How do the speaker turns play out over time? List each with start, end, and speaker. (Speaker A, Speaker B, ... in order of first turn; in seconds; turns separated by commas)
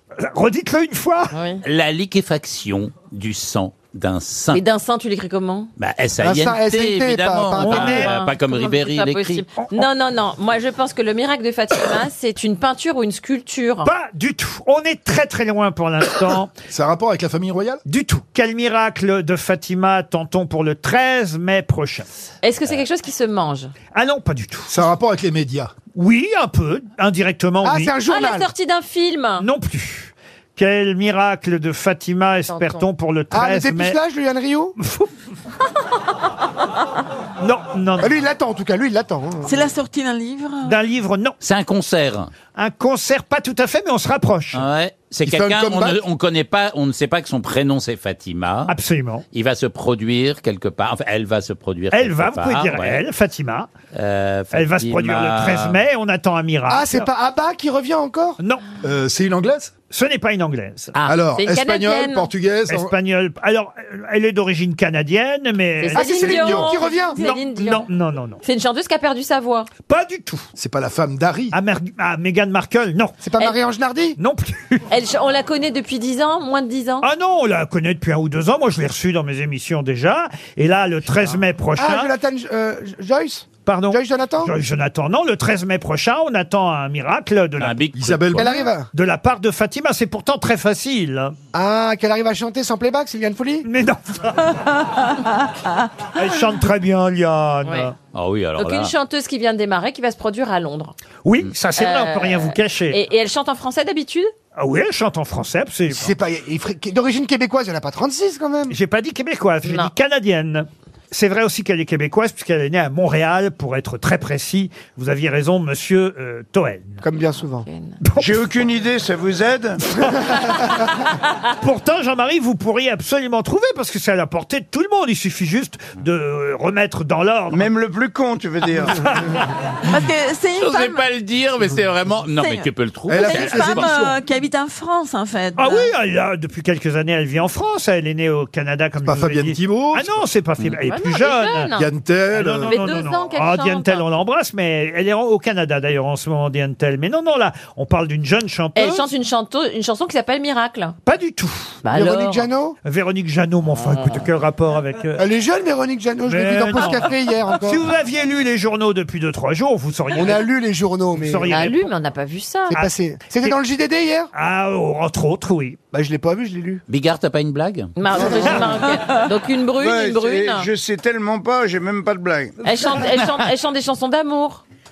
Speaker A: 0.2-1.3, Speaker B: 1.3-1.6, Speaker C: 1.6-4.6, Speaker B: 4.5-5.7, Speaker C: 5.8-9.5, Speaker D: 6.2-8.1, Speaker A: 7.6-8.1, Speaker B: 7.9-13.9, Speaker A: 9.6-9.9, Speaker A: 13.8-16.5, Speaker E: 16.7-17.8, Speaker A: 17.9-22.1, Speaker B: 22.4-23.7, Speaker A: 23.9-24.7, Speaker E: 24.7-25.7, Speaker A: 25.9-27.9, Speaker D: 27.6-28.5, Speaker B: 28.1-29.4, Speaker A: 29.4-34.0, Speaker B: 32.5-32.9, Speaker D: 33.3-34.8, Speaker A: 34.8-35.1, Speaker A: 37.4-38.1, Speaker D: 38.0-39.7, Speaker F: 39.4-40.8, Speaker A: 40.6-41.4, Speaker C: 41.4-42.3, Speaker A: 42.5-44.6, Speaker C: 44.5-48.7, Speaker E: 45.2-46.0, Speaker A: 48.7-49.2, Speaker C: 49.3-53.0, Speaker A: 51.9-53.7, Speaker C: 53.9-55.8, Speaker A: 54.5-57.1, Speaker D: 56.7-58.4, Speaker E: 58.8-59.7, Speaker A: 59.9-60.9, Speaker E: 61.1-62.9, Speaker B: 61.4-62.3, Speaker A: 62.7-68.4, Speaker B: 65.8-67.9, Speaker D: 66.0-67.2, Speaker B: 68.4-69.7, Speaker A: 69.8-70.5, Speaker E: 70.6-71.5, Speaker A: 71.5-73.2, Speaker D: 73.2-74.2, Speaker A: 74.2-74.8, Speaker B: 74.9-77.1, Speaker A: 77.0-82.1, Speaker D: 81.8-84.5, Speaker A: 83.7-87.8, Speaker C: 87.6-88.5, Speaker E: 88.0-88.5, Speaker D: 88.4-88.9, Speaker A: 88.9-91.3, Speaker D: 91.5-93.7, Speaker A: 93.7-94.6, Speaker A: 96.1-97.9, Speaker B: 97.7-97.9, Speaker C: 98.1-98.9, Speaker B: 98.6-100.9, Speaker A: 101.2-103.0, Speaker B: 101.8-104.3, Speaker A: 104.6-106.2, Speaker D: 106.0-108.8, Speaker A: 108.7-117.0, Speaker B: 109.6-109.9, Speaker D: 117.0-117.7, Speaker B: 117.4-118.0, Speaker A: 118.0-118.3, Speaker G: 118.2-120.0, Speaker A: 121.6-127.7, Speaker G: 127.5-129.2, Speaker A: 128.9-129.4, Speaker F: 129.8-131.0, Speaker C: 130.6-134.1, Speaker F: 132.4-135.9, Speaker E: 133.1-134.2, Speaker A: 135.6-141.7, Speaker E: 139.1-140.2, Speaker B: 140.8-141.9, Speaker E: 141.7-142.8, Speaker A: 142.3-149.1, Speaker B: 142.6-144.1, Speaker B: 148.8-150.9, Speaker A: 151.0-151.8, Speaker B: 151.8-152.5, Speaker D: 151.9-152.8, Speaker A: 152.8-155.3, Speaker B: 153.8-154.2, Speaker D: 155.2-157.8, Speaker A: 156.3-160.5, Speaker D: 160.1-161.5, Speaker A: 161.2-161.9, Speaker B: 161.4-162.8, Speaker D: 162.7-164.3, Speaker A: 162.7-163.6, Speaker A: 164.3-165.8, Speaker D: 165.9-166.8, Speaker C: 166.9-167.9, Speaker B: 168.0-170.7, Speaker D: 168.1-168.9, Speaker G: 169.8-172.6, Speaker B: 172.6-174.6